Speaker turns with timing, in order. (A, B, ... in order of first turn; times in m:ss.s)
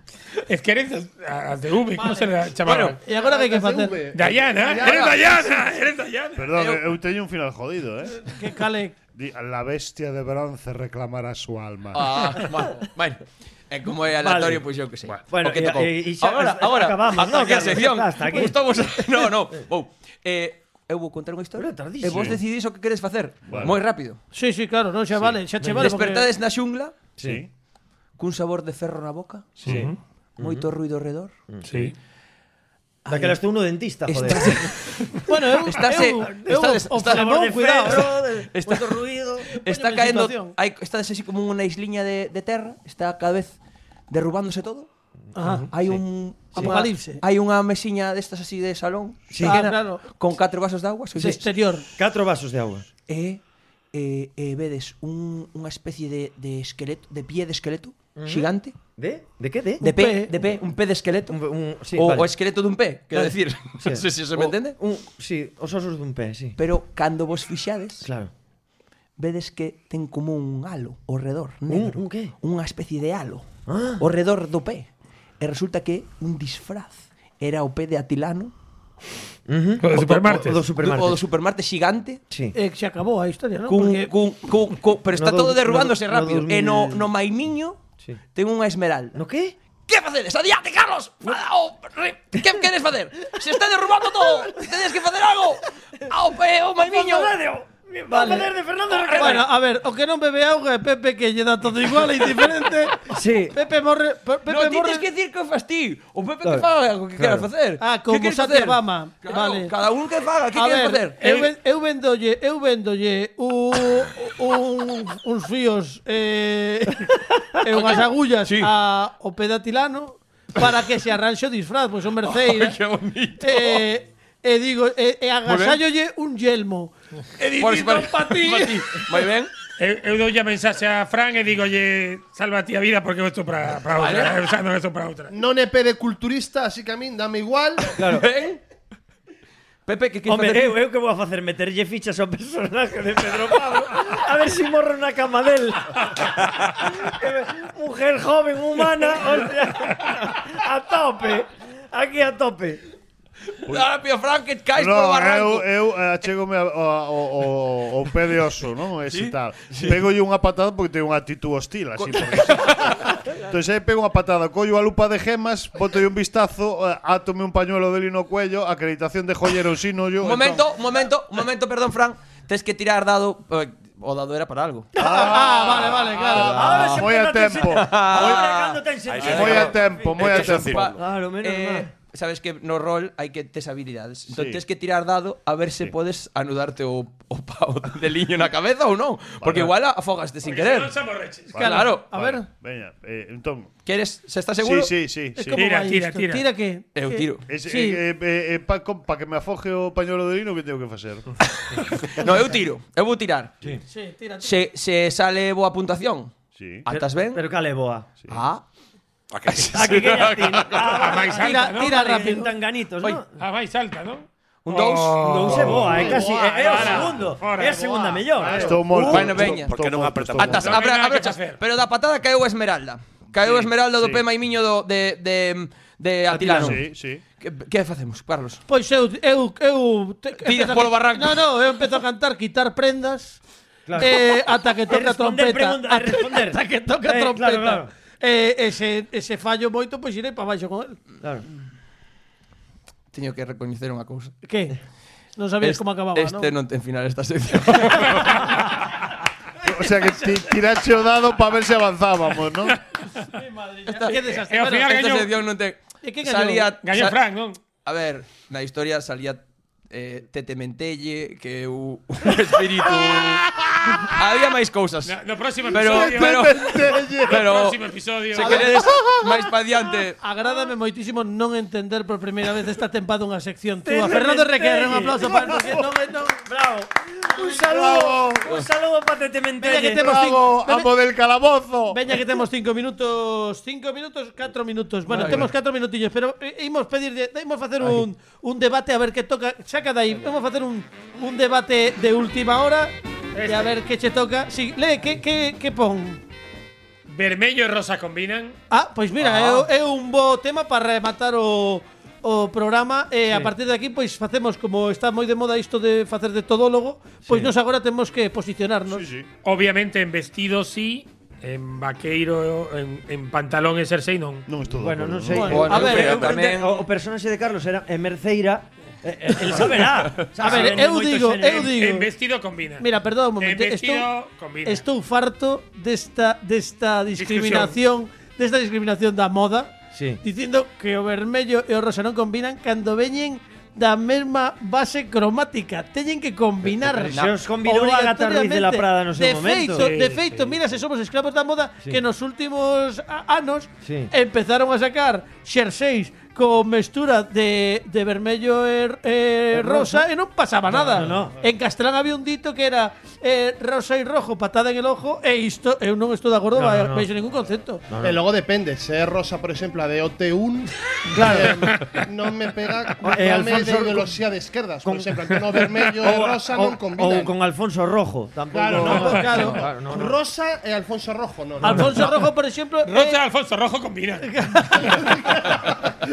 0:00.5-0:03.0 A
0:02.0-0:04.0 B
0:02.6-0:03.0 C
0:03.1-0:05.6 D
0:04.1-0:06.5 A
0:04.8-0:05.2 C
0:06.4-0:08.2 E
0:06.6-0:06.8 C
0:08.2-0:09.0 B
0:09.2-0:12.3 E
0:11.9-0:24.2 C
0:14.2-0:14.6 F
0:15.2-0:18.7 F
0:21.6-0:22.4 F
0:22.1-0:22.4 E
0:23.5-0:23.8 E
0:24.3-0:26.3 B
0:25.6-0:25.9 F
0:25.7-0:27.0 C
0:27.2-0:27.4 F
0:27.2-0:27.5 E
0:28.2-0:31.4 C
0:29.6-0:30.7 F
0:29.7-0:30.0 A
0:31.5-0:31.9 F
0:31.7-0:32.0 A
0:33.1-0:34.7 F
0:33.1-0:33.4 C
0:34.1-0:43.6 C
0:35.2-0:38.1 B
0:37.0-0:39.5 F
0:39.5-0:40.6 B
0:44.1-0:44.9 C
0:45.4-0:45.7 B
0:45.4-0:46.0 F
0:45.7-0:51.4 C
0:46.5-0:47.2 B
0:49.3-0:49.6 F
0:49.4-0:50.0 B
0:51.2-0:51.9 B
0:52.0-0:52.8 F
0:53.1-0:53.4 C
0:53.9-0:58.8 C
0:58.2-0:59.8 F
0:59.8-1:00.3 B
0:59.8-1:01.4 C
1:01.3-1:02.3 F
1:01.9-1:04.8 C
1:03.1-1:06.6 F
1:06.6-1:08.1 C
1:08.0-1:08.3 F
1:09.2-1:14.9 C
1:11.7-1:12.3 F
1:13.7-1:14.0 F
1:15.4-1:18.5 C
1:19.5-1:21.2 F
1:19.8-1:20.6 A
1:19.9-1:22.2 C
1:22.3-1:22.6 F
1:22.5-1:24.1 B
1:23.7-1:29.2 C
1:25.1-1:27.1 F
1:29.2-1:29.6 F
1:29.9-1:37.4 C
1:36.8-1:39.5 F
1:38.1-1:38.5 B
1:38.9-1:39.4 C
1:39.2-1:45.0 B
1:43.1-1:43.6 F
1:44.5-1:51.5 C
1:46.4-1:47.5 F
1:47.8-1:49.7 B
1:50.6-2:02.8 B
1:57.7-1:58.7 C
2:02.2-2:03.9 C
2:03.4-2:06.9 B
2:05.4-2:05.8 C
2:07.4-2:08.7 A
2:07.6-2:09.5 C
2:08.3-2:08.6 B
2:09.8-2:15.3 A
2:13.9-2:14.4 C
2:15.3-2:18.0 D
2:18.0-2:18.2 F
2:18.0-2:18.6 C
2:19.9-2:20.8 C
2:20.3-2:32.8 F
2:33.6-2:35.7 C
2:34.8-2:50.7 E
2:39.1-2:40.0 C
2:42.0-2:43.2 C
2:50.2-2:54.9 C
2:55.0-2:58.4 E
2:55.0-2:56.8 B
2:56.3-3:00.2 F
2:56.3-3:11.0 C
2:59.1-3:01.0 G
2:59.2-3:00.9 E
3:01.0-3:01.9 F
3:04.3-3:04.6 E
3:09.4-3:09.7 E
3:10.4-3:11.6 A
3:11.5-3:13.7 E
3:11.6-3:12.5 B
3:11.6-3:12.1 C
3:13.9-3:14.9 C
3:14.6-3:15.6 E
3:15.4-3:18.0 B
3:15.6-3:16.5 A
3:16.9-3:17.4 C
3:17.5-3:21.3 E
3:21.7-3:23.8 C
3:23.9-3:24.6 B
3:24.4-3:26.4 C
3:26.6-3:26.9 E
3:26.9-3:27.4 C
3:26.9-3:28.1 F
3:28.3-3:28.6 C
3:29.3-3:30.8 G
3:29.5-3:31.1 C
3:29.6-3:33.3 F
3:31.0-3:32.0 A
3:31.3-3:32.5 B
3:33.0-3:38.5 A
3:34.7-3:37.2 C
3:35.2-3:38.8 F
3:35.7-3:36.2 E
3:38.4-3:40.8 E
3:38.4-3:39.8 C
3:38.7-3:40.8 G
3:40.4-3:48.6 C
3:40.5-3:41.6 A
3:44.0-3:44.2 E
3:46.3-3:46.8 F
3:46.6-3:47.2 E
3:48.7-3:53.4 B
3:50.4-3:51.4 C
3:53.9-3:54.3 F
3:54.0-4:01.0 B
3:54.9-3:57.9 F
4:03.1-4:04.4 C
4:04.4-4:04.8 B
4:05.4-4:06.5 B
4:05.6-4:08.7 C
4:07.9-4:08.3 A
4:09.6-4:10.6 B
4:09.6-4:12.8 E
4:13.3-4:15.1 B
4:13.9-4:14.2 C
4:14.1-4:15.3 A
4:14.8-4:17.2 C
4:16.0-4:16.7 B
4:16.8-4:17.6 A
4:17.8-4:25.2 C
4:22.9-4:24.0 E
4:25.0-4:26.7 A
4:25.7-4:27.8 C
4:25.7-4:27.6 E
4:27.2-4:28.9 A
4:28.3-4:30.2 C
4:28.6-4:29.5 E
4:30.2-4:36.5 B
4:33.8-4:35.8 F
4:36.4-4:40.1 F
4:37.6-4:38.5 E
4:39.6-4:40.9 B
4:39.8-4:42.2 E
4:41.9-4:52.9 B
4:45.1-4:45.5 C
4:53.4-4:53.7 A
4:53.4-4:56.2 B
4:57.1-4:58.6 A
4:58.7-5:09.1 B
5:07.2-5:07.5 F
5:08.9-5:09.3 E
5:09.4-5:14.5 A
5:14.5-5:15.6 E
5:14.7-5:21.7 F
5:15.3-5:16.4 B
5:15.4-5:16.9 C
5:19.9-5:20.3 C
5:20.4-5:22.1 B
5:20.4-5:20.8 A
5:21.5-5:22.9 A
5:22.8-5:24.1 B
5:23.4-5:24.8 A
5:24.6-5:57.9 B
5:27.2-5:27.8 A
5:29.9-5:30.2 F
5:36.8-5:39.9 F
5:37.1-5:37.5 C
5:39.7-5:40.6 A
5:43.8-5:44.1 F
5:49.5-5:50.1 F
5:50.7-5:51.4 F
5:56.6-5:57.1 F
5:57.9-5:58.2 F
5:58.0-6:07.3 D
6:01.1-6:01.6 F
6:01.6-6:02.0 A
6:03.0-6:04.1 F
6:04.8-6:05.2 F
6:05.9-6:10.2 F
6:08.5-6:12.1 D
6:08.8-6:09.6 B
6:11.6-6:13.2 B
6:11.6-6:12.1 F
6:12.8-6:15.6 A
6:14.2-6:15.2 B